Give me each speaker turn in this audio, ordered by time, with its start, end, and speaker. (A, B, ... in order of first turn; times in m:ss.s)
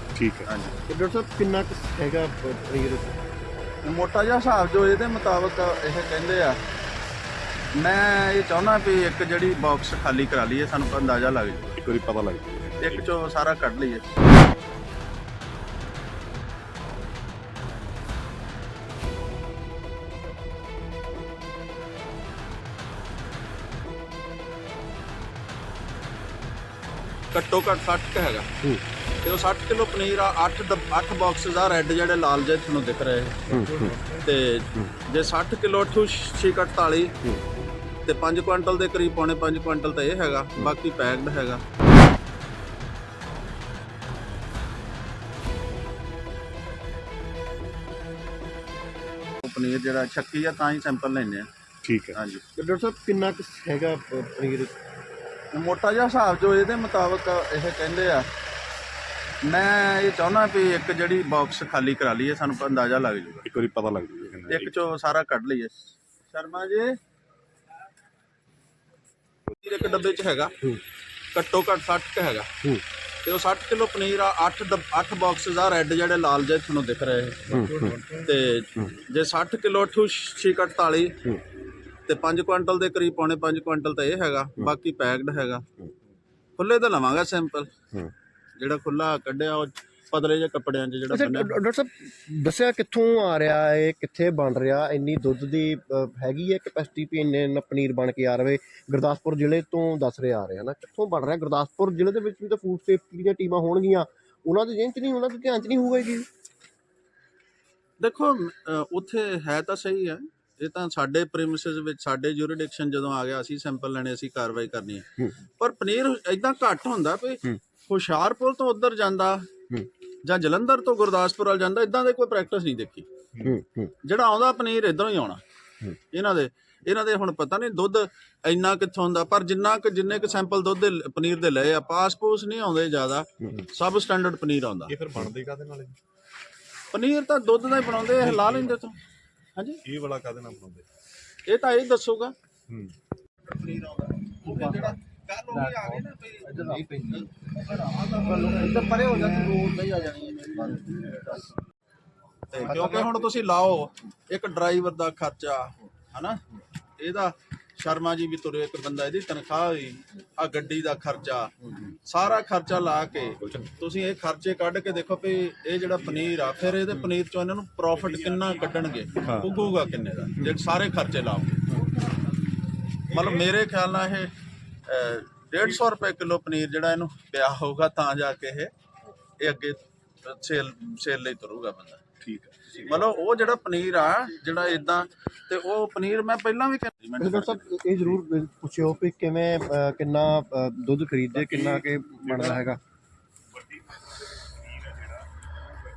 0:00.2-0:00.4 A
0:00.4-0:00.8 B
0:00.9-0:03.2 C
0:03.8-0:06.6 B
0:07.8-0:11.7 B
0:11.8-0:13.1 A
0:12.8-0:14.0 B
0:27.3-0:28.5 B
0:29.2-0:37.2 B
0:33.5-0:34.0 C
0:38.1-0:41.6 B
0:49.4-0:51.5 B
0:51.8-0:52.2 A
0:52.1-0:52.4 B
0:52.6-0:54.7 C
0:55.5-0:58.3 B
0:59.4-1:03.5 B
1:03.4-1:04.7 A
1:04.5-1:05.7 B
1:06.3-1:07.0 B
1:09.6-1:10.5 B
1:11.3-1:12.5 B
1:13.2-1:21.3 B
1:17.5-1:18.0 C
1:22.1-1:25.6 B
1:26.6-1:27.7 B
1:28.6-1:31.6 B
1:31.1-1:46.3 C
1:48.0-1:55.1 B
1:55.6-1:59.5 B
2:00.2-2:03.1 B
2:03.4-2:03.9 C
2:04.0-2:05.4 B
2:06.1-2:14.9 B
2:14.9-2:16.0 A
2:16.9-2:19.0 B
2:18.2-2:18.7 A
2:19.9-2:20.8 A
2:21.5-2:22.3 B
2:22.7-2:23.0 A
2:23.5-2:30.8 B
2:26.5-2:27.2 C
2:28.3-2:31.3 C
2:32.5-2:36.4 B
2:32.6-2:33.2 C
2:37.0-2:51.6 B
2:53.1-2:54.3 B
2:54.9-2:58.7 B
2:59.4-3:02.0 B
3:02.2-3:02.7 A
3:02.8-3:07.7 B
3:07.2-3:12.8 C